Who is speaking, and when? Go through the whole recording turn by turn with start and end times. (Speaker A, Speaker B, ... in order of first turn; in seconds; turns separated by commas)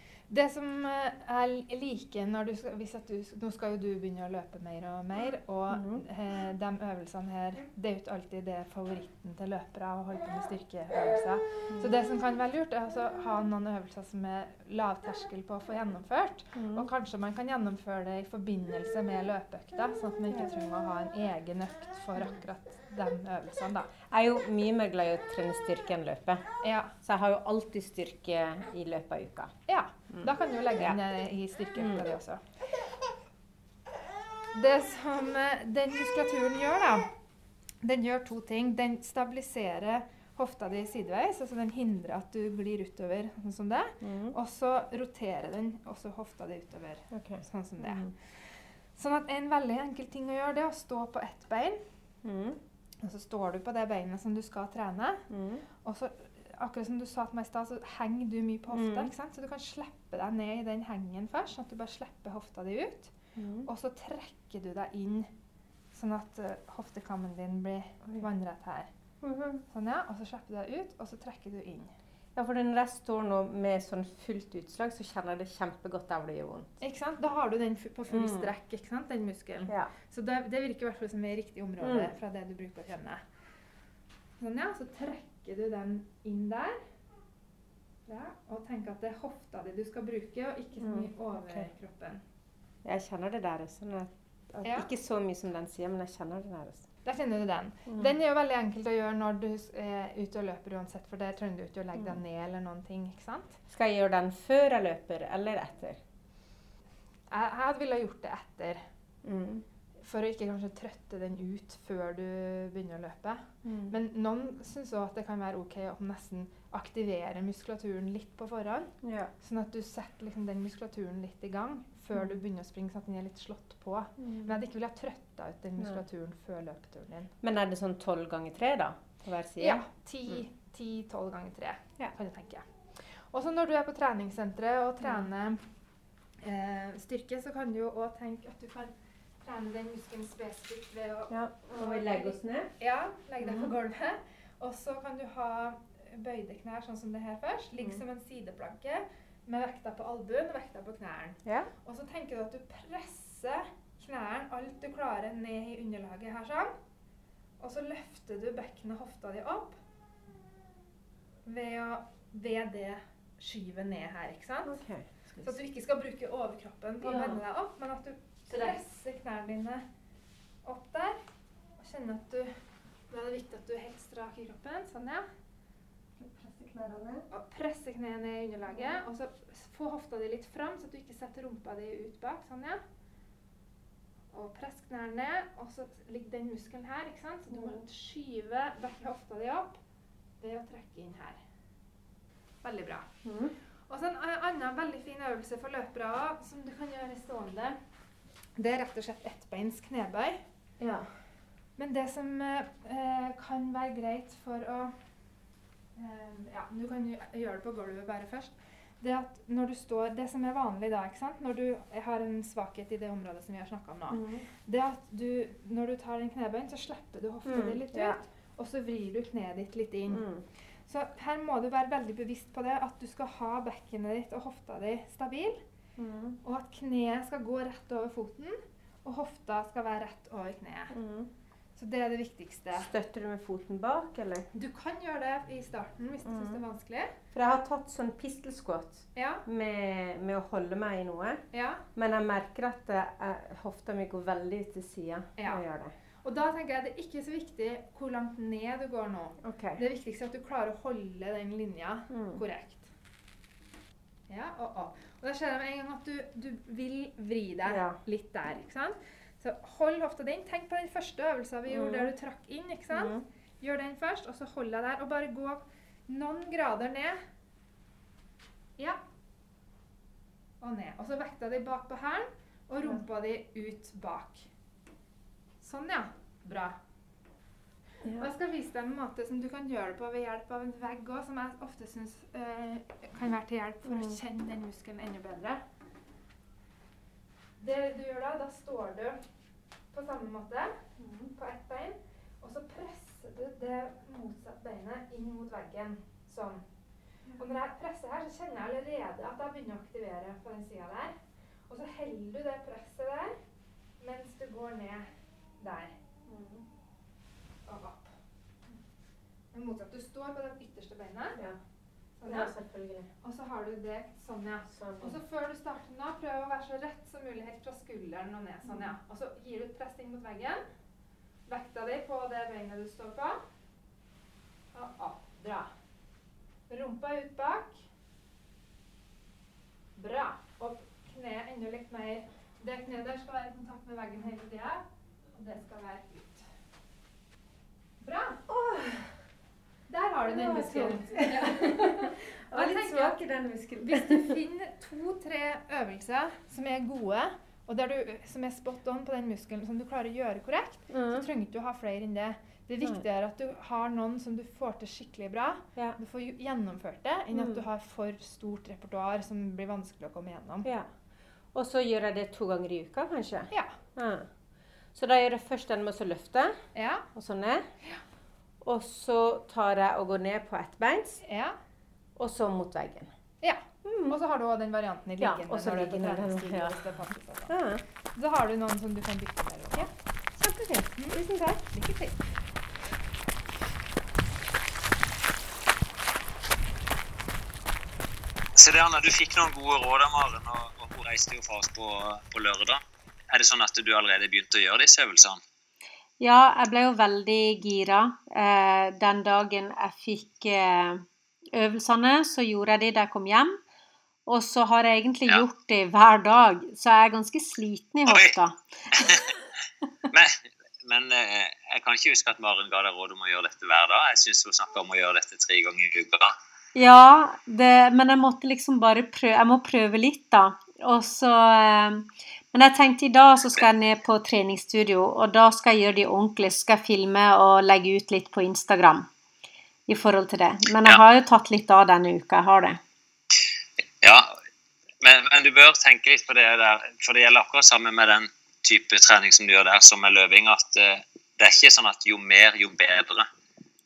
Speaker A: 0.3-23.9, Speaker B: 5.7-6.0, Speaker B: 16.5-16.9, Speaker B: 24.1-26.5, Speaker A: 26.6-26.9, Speaker B: 27.0-29.5, Speaker A: 29.7-32.4, Speaker B: 30.1-31.0, Speaker B: 31.8-32.0, Speaker A: 34.5-37.1, Speaker A: 37.8-51.8, Speaker B: 44.0-44.4, Speaker B: 47.1-48.1, Speaker B: 52.2-52.6, Speaker A: 53.0-55.2, Speaker B: 55.3-55.6, Speaker A: 55.8-63.1, Speaker B: 58.7-59.1, Speaker B: 63.4-63.7, Speaker A: 63.7-65.3, Speaker A: 65.9-68.9, Speaker B: 69.2-69.6, Speaker A: 69.7-71.9, Speaker B: 72.3-76.7, Speaker A: 76.8-83.2, Speaker B: 78.1-78.5, Speaker B: 79.7-79.9, Speaker B: 81.8-82.1, Speaker A: 84.4-86.8, Speaker A: 88.1-92.2, Speaker B: 90.8-91.7, Speaker B: 92.8-96.9, Speaker A: 94.6-94.9, Speaker A: 97.0-103.6, Speaker B: 97.9-98.1, Speaker B: 103.7-106.0, Speaker A: 107.3-108.8, Speaker B: 109.2-109.7, Speaker A: 110.0-127.3, Speaker B: 113.6-113.9, Speaker B: 119.0-119.3, Speaker B: 124.2-124.6, Speaker B: 125.8-126.0, Speaker B: 127.4-130.4, Speaker A: 129.6-135.6, Speaker A: 136.4-156.8, Speaker B: 141.3-142.7, Speaker B: 143.4-143.7, Speaker B: 151.4-151.7, Speaker A: 157.6-159.8, Speaker A: 161.4-164.8, Speaker B: 164.7-165.6, Speaker A: 165.4-169.9, Speaker B: 167.0-167.4, Speaker B: 168.5-168.8, Speaker A: 170.6-171.2, Speaker A: 171.8-172.6, Speaker A: 173.1-175.3, Speaker B: 176.2-177.2, Speaker A: 177.3-182.8, Speaker B: 178.7-179.0, Speaker A: 184.3-189.8, Speaker B: 187.5-187.8, Speaker A: 190.4-191.4, Speaker A: 192.6-193.1, Speaker B: 193.2-193.6, Speaker A: 193.9-197.8, Speaker A: 198.6-200.4, Speaker B: 200.8-201.1, Speaker A: 201.8-205.0, Speaker A: 206.0-220.3, Speaker B: 214.1-214.4, Speaker B: 217.4-218.2, Speaker B: 220.1-220.4, Speaker A: 220.9-225.6, Speaker B: 226.0-226.4, Speaker A: 226.4-230.9, Speaker B: 230.9-231.3, Speaker A: 231.8-232.9, Speaker B: 232.7-234.5, Speaker A: 234.5-237.1, Speaker B: 236.2-236.6, Speaker B: 237.3-241.4, Speaker A: 239.2-239.4, Speaker A: 241.5-241.8, Speaker B: 241.9-245.9, Speaker A: 245.4-245.6, Speaker A: 246.2-252.9, Speaker B: 249.4-249.8, Speaker B: 252.1-252.4, Speaker A: 254.3-267.2, Speaker B: 257.7-258.0, Speaker B: 261.7-262.1, Speaker B: 262.9-263.2, Speaker A: 270.6-274.5, Speaker A: 275.6-276.8, Speaker B: 278.0-278.3, Speaker A: 278.2-285.6, Speaker B: 283.9-284.2, Speaker A: 287.6-289.2, Speaker A: 289.9-290.8, Speaker B: 291.0-291.3, Speaker A: 291.3-296.6, Speaker A: 297.4-301.2, Speaker A: 301.7-303.4, Speaker A: 304.0-306.0, Speaker B: 306.3-306.6, Speaker A: 307.6-308.1, Speaker A: 309.5-311.4, Speaker A: 312.2-312.5, Speaker B: 312.3-313.1, Speaker A: 313.2-320.6, Speaker B: 314.7-315.2, Speaker B: 318.6-319.0, Speaker A: 321.5-323.4, Speaker A: 324.7-325.7, Speaker A: 326.7-327.8, Speaker A: 330.0-336.5, Speaker A: 338.0-338.5, Speaker B: 338.5-339.1, Speaker A: 339.9-343.3, Speaker B: 340.2-344.4, Speaker A: 343.8-360.7, Speaker B: 350.9-351.3, Speaker B: 357.3-357.6, Speaker B: 360.6-360.9, Speaker B: 361.5-364.3, Speaker A: 363.5-363.8, Speaker B: 364.9-366.6, Speaker A: 366.8-367.1, Speaker B: 367.1-367.7, Speaker B: 368.6-371.2, Speaker A: 371.2-371.6, Speaker B: 372.2-373.1, Speaker A: 373.4-377.5, Speaker B: 373.9-374.2, Speaker B: 375.2-376.8, Speaker B: 377.5-377.8, Speaker A: 378.1-379.9, Speaker A: 380.4-382.3, Speaker C: 388.7-392.7, Speaker C: 393.4-395.3, Speaker B: 396.2-403.6, Speaker B: 404.3-409.1, Speaker C: 410.9-416.2, Speaker B: 416.8-429.1, Speaker B: 429.9-432.8, Speaker C: 435.1-438.2, Speaker C: 438.9-440.8, Speaker C: 441.4-443.2